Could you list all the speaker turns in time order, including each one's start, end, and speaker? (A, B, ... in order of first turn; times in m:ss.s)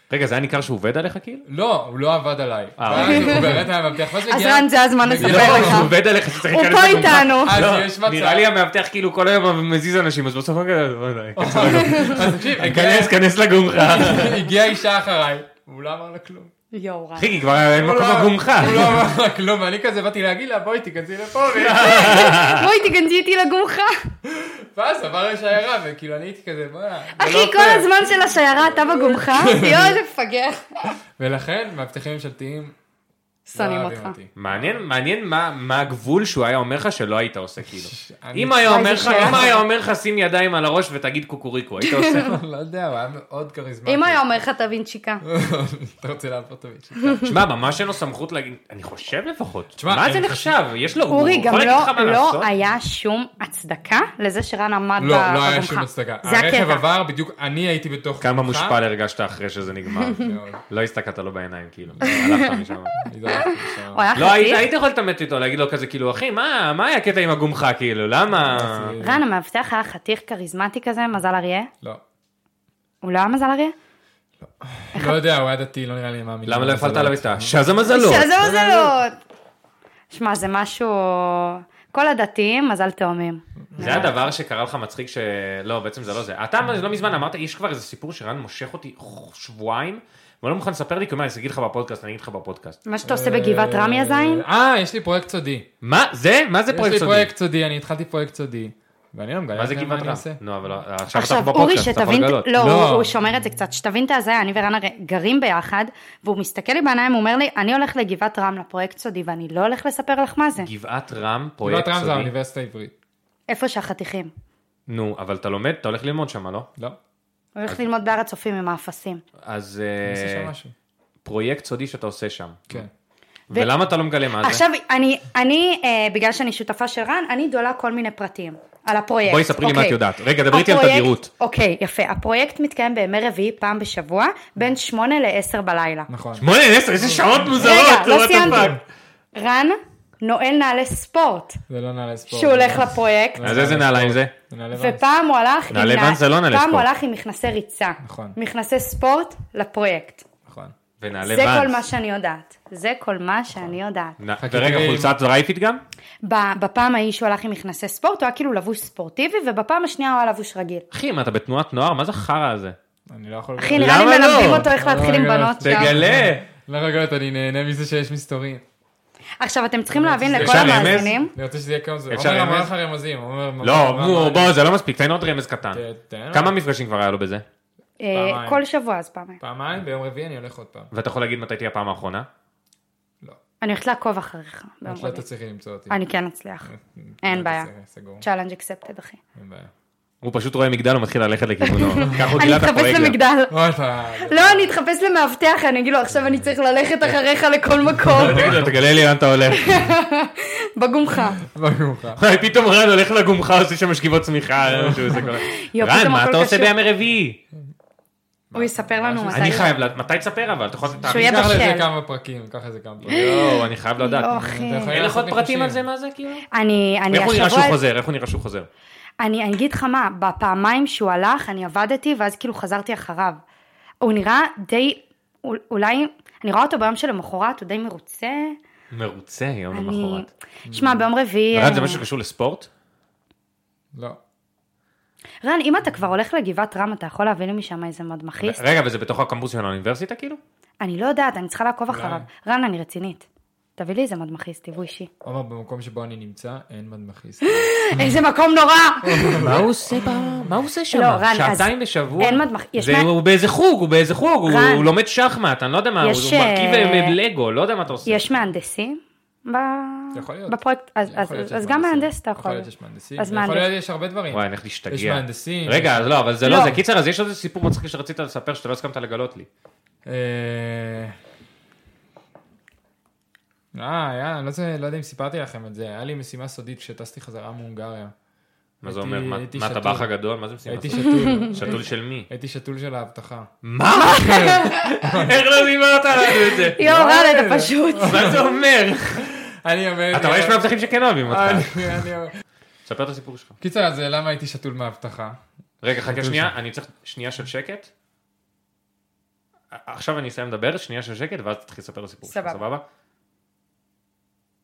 0:00.1-0:01.4 A
0:01.5-0:05.9 B
0:02.8-0:03.6 A
0:02.9-0:03.5 C
0:04.2-0:07.6 C
0:05.2-0:14.5 A
0:07.4-0:08.5 B
0:11.4-0:13.2 B
0:11.6-0:12.2 C
0:13.8-0:16.5 B
0:16.7-0:17.3 C
0:17.2-0:19.0 A
0:17.8-0:22.4 B
0:21.5-0:22.7 A
0:21.8-0:24.1 C
0:24.2-0:28.0 B
0:27.2-0:30.9 C
0:28.7-0:30.0 B
0:31.2-0:32.8 B
0:33.5-0:34.2 C
0:33.6-0:34.8 B
0:34.4-0:42.4 A
0:37.7-0:39.6 B
0:38.6-0:39.6 C
0:41.8-0:42.2 C
0:42.2-0:44.2 B
0:43.9-0:45.2 C
0:45.2-0:47.4 B
0:47.0-0:47.3 C
0:47.2-0:52.5 A
0:49.8-0:50.6 B
0:51.1-0:56.8 C
0:55.0-0:58.8 B
0:58.2-1:03.1 A
1:00.2-1:00.6 B
1:02.0-1:02.6 C
1:03.0-1:04.1 B
1:03.3-1:04.7 C
1:04.2-1:09.0 A
1:08.3-1:09.2 B
1:09.0-1:11.7 C
1:13.0-1:13.8 C
1:14.4-1:17.6 B
1:16.5-1:18.3 A
1:17.9-1:19.2 C
1:18.4-1:19.0 B
1:20.1-1:24.1 C
1:23.7-1:24.1 B
1:23.8-1:32.8 A
1:32.9-1:34.4 C
1:33.0-1:35.7 B
1:35.8-1:37.3 A
1:36.7-1:40.4 B
1:39.6-1:42.5 A
1:41.1-1:50.7 C
1:42.6-1:43.2 B
1:50.6-1:52.3 A
1:51.6-1:52.9 B
1:53.5-1:54.3 C
1:54.9-1:56.7 A
1:57.6-1:59.2 C
1:59.4-2:00.5 A
2:00.0-2:00.7 B
2:01.2-2:02.9 A
2:03.5-2:04.6 A
2:04.4-2:10.0 C
2:09.2-2:11.3 A
2:10.5-2:16.1 C
2:16.1-2:17.8 B
2:16.4-2:18.8 A
2:17.6-2:18.8 C
2:18.4-2:18.8 B
2:19.4-2:21.6 C
2:21.7-2:25.0 B
2:22.3-2:23.5 C
2:23.4-2:24.3 A
2:24.8-2:30.2 C
2:25.7-2:26.9 A
2:28.0-2:28.4 B
2:30.5-2:30.8 B
2:31.0-2:31.8 A
2:31.2-2:34.2 C
2:34.2-2:35.8 A
2:34.4-2:35.2 B
2:36.2-2:40.9 C
2:40.9-2:42.8 A
2:43.1-2:48.6 B
2:43.6-2:45.9 C
2:43.8-2:44.7 A
2:45.6-2:46.4 A
2:49.4-2:51.3 C
2:49.9-2:54.5 B
2:50.3-2:51.2 A
2:52.1-2:52.7 A
2:53.6-2:57.4 A
2:55.7-2:56.5 B
2:58.0-2:59.4 C
2:58.1-2:58.6 B
2:59.4-3:00.9 B
3:00.9-3:02.3 A
3:03.6-3:05.2 C
3:04.8-3:06.0 B
3:05.9-3:06.7 C
3:06.6-3:08.2 B
3:07.2-3:07.7 C
3:08.2-3:09.2 C
3:09.4-3:09.7 B
3:10.2-3:13.2 A
3:11.6-3:13.6 C
3:12.0-3:12.4 B
3:13.5-3:14.7 B
3:14.2-3:18.6 C
3:18.0-3:19.9 A
3:18.1-3:18.7 B
3:19.5-3:21.4 C
3:21.4-3:22.2 B
3:22.2-3:27.4 A
3:24.7-3:25.3 B
3:25.4-3:26.7 C
3:28.5-3:29.7 B
3:28.5-3:29.7 C
3:29.3-3:31.7 A
3:31.0-3:33.5 B
3:31.1-3:31.9 C
3:33.1-3:36.5 A
3:33.1-3:35.0 C
3:34.3-3:35.8 B
3:36.5-3:37.8 C
3:37.1-3:38.7 A
3:39.2-3:43.4 C
3:44.0-3:48.6 C
3:48.9-3:50.3 A
3:49.7-3:52.0 C
3:50.6-3:51.1 B
3:51.5-3:52.7 A
3:53.9-3:54.2 B
3:55.4-3:58.6 C
3:58.4-4:00.4 A
4:00.8-4:05.1 C
4:01.9-4:02.2 B
4:05.2-4:08.1 B
4:07.4-4:09.6 C
4:09.0-4:10.1 B
4:09.4-4:18.3 A
4:10.9-4:13.1 C
4:14.5-4:14.9 C
4:16.0-4:17.2 C
4:18.1-4:23.7 C
4:20.1-4:26.1 B
4:24.3-4:29.5 A
4:26.4-4:26.8 C
4:30.1-4:31.2 B
4:33.8-4:38.1 B
4:38.8-4:42.3 A
4:38.8-4:40.1 B
4:40.6-4:43.5 B
4:41.1-4:41.5 C
4:43.6-4:46.9 A
4:44.2-4:45.4 B
4:44.3-4:44.8 C
4:46.2-4:48.5 B
4:46.7-4:48.4 C
4:48.0-4:49.3 A
4:49.2-4:50.7 B
4:50.1-4:52.1 A
4:51.3-4:52.3 B
4:52.9-4:53.5 A
4:53.6-4:55.4 B
4:55.8-4:57.9 A
4:56.2-4:56.5 B
4:59.7-5:02.8 A
5:02.3-5:02.6 C